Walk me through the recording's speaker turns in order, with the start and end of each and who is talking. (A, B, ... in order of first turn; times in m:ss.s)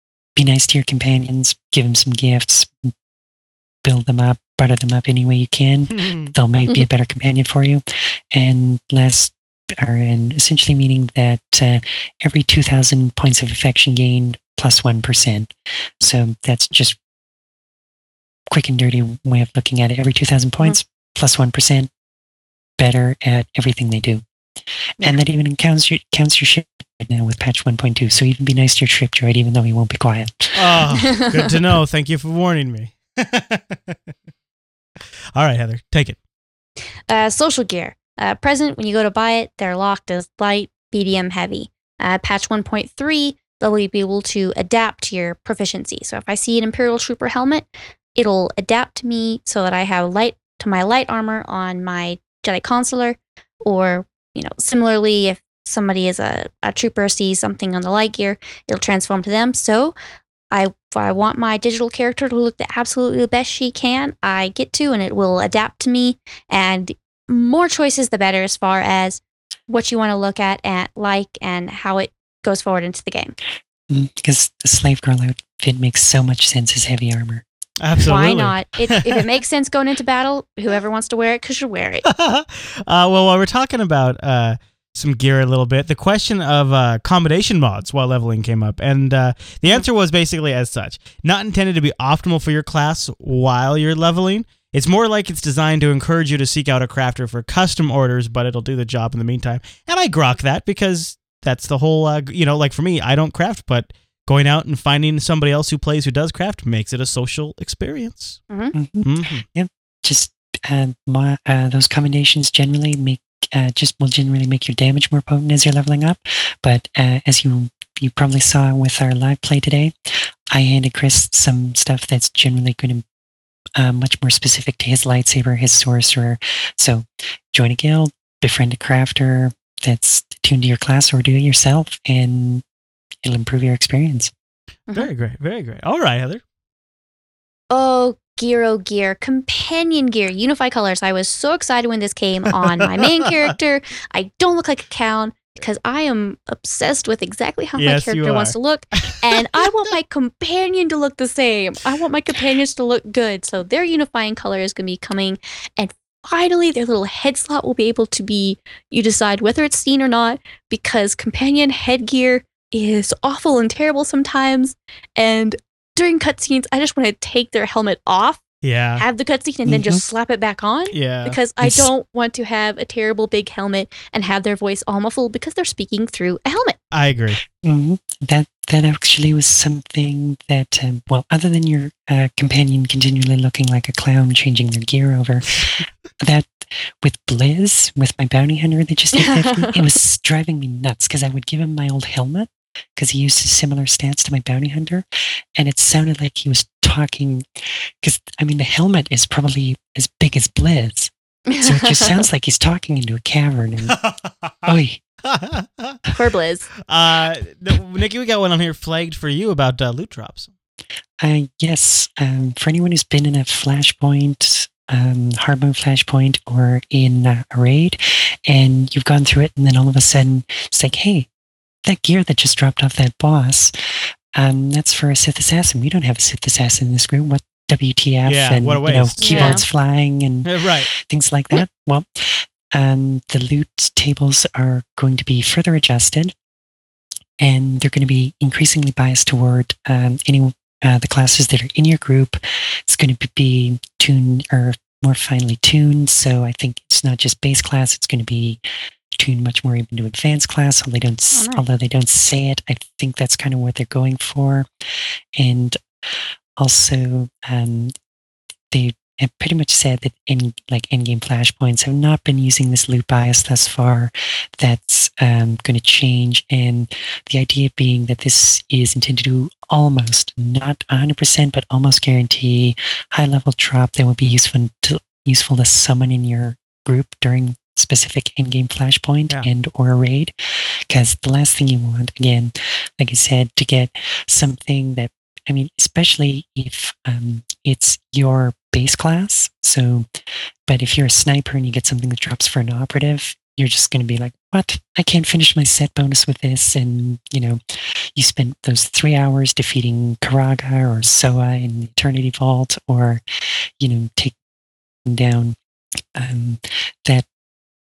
0:00.4-0:02.9 A
0:03.8-0:17.0 A
0:06.0-0:06.3 B
0:18.5-0:21.9 A
0:22.8-0:24.2 A
0:25.0-0:30.8 A
0:30.6-0:34.0 B
0:35.4-0:36.2 B
0:37.1-0:59.9 C
1:00.5-1:13.4 C
1:13.9-1:17.4 A
1:17.8-1:19.2 B
1:18.0-1:22.0 C
1:22.1-1:48.4 B
1:48.7-2:03.0 A
1:49.0-1:49.4 B
2:03.8-2:12.6 A
2:13.2-2:14.3 A
2:15.0-2:16.4 B
2:17.7-2:48.4 C
2:27.8-2:29.6 B
2:48.6-2:49.0 B
2:49.0-2:56.8 C
2:49.7-2:50.0 A
2:50.9-2:51.4 B
2:51.6-2:51.9 A
2:56.9-2:57.4 B
2:57.6-3:24.0 A
3:09.2-3:09.8 C
3:21.5-3:22.2 C
3:23.9-3:24.7 B
3:24.7-3:25.0 A
3:25.2-3:26.0 B
3:26.1-3:26.7 C
3:26.9-3:30.5 B
3:31.2-3:41.3 A
3:41.8-3:56.3 A
3:48.3-3:49.6 B
3:49.2-3:49.6 C
3:50.4-3:50.9 B
3:57.4-4:08.6 A
4:09.2-4:14.7 A
4:11.3-4:11.6 C
4:15.4-4:15.8 A
4:16.6-4:17.9 A
4:18.7-4:50.1 A
4:50.7-5:03.2 A
5:03.8-5:04.4 A
5:05.0-5:05.6 A
5:06.1-5:07.3 A